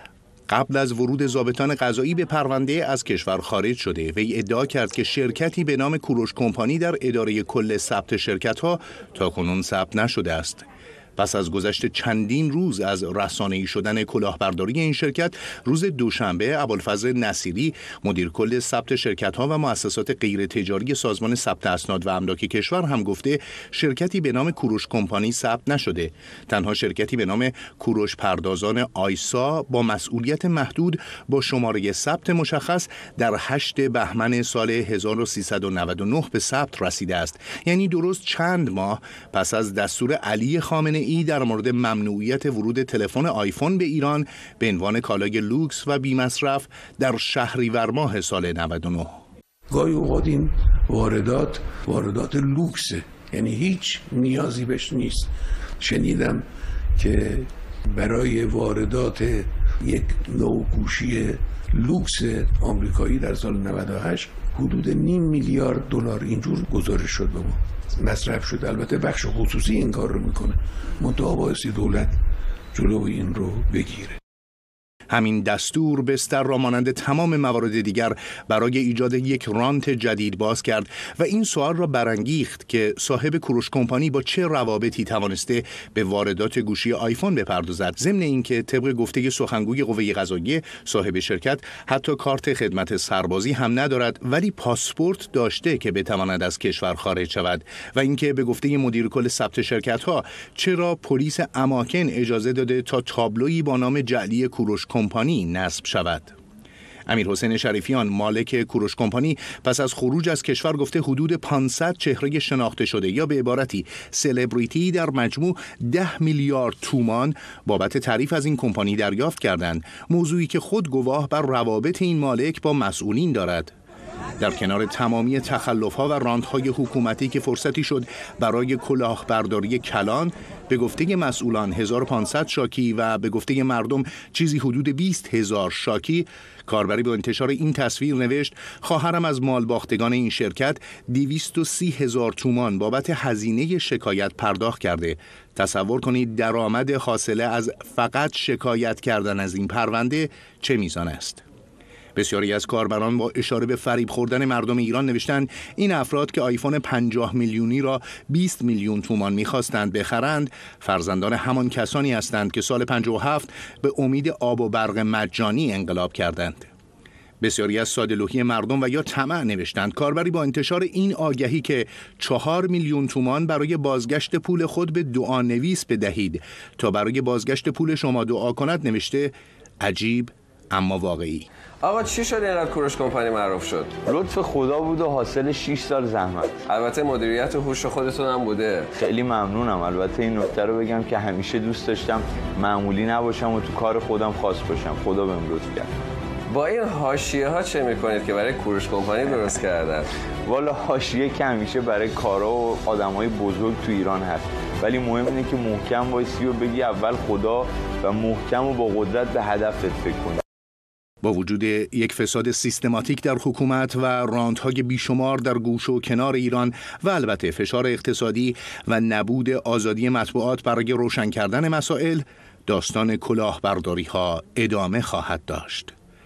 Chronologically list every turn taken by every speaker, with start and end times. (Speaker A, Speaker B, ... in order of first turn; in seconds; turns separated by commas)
Speaker A: 0.5-10.6, Speaker A: 11.2-49.2, Speaker B: 49.7-72.2, Speaker B: 72.7-74.2, Speaker A: 75.1-106.4, Speaker A: 107.1-123.7, Speaker A: 124.4-151.4, Speaker A: 152.2-166.7, Speaker A: 167.4-181.5, Speaker C: 181.8-183.9, Speaker D: 184.0-186.6, Speaker C: 186.7-188.9, Speaker D: 189.0-195.9, Speaker C: 196.5-200.1, Speaker D: 200.4-210.4, Speaker A: 211.2-225.9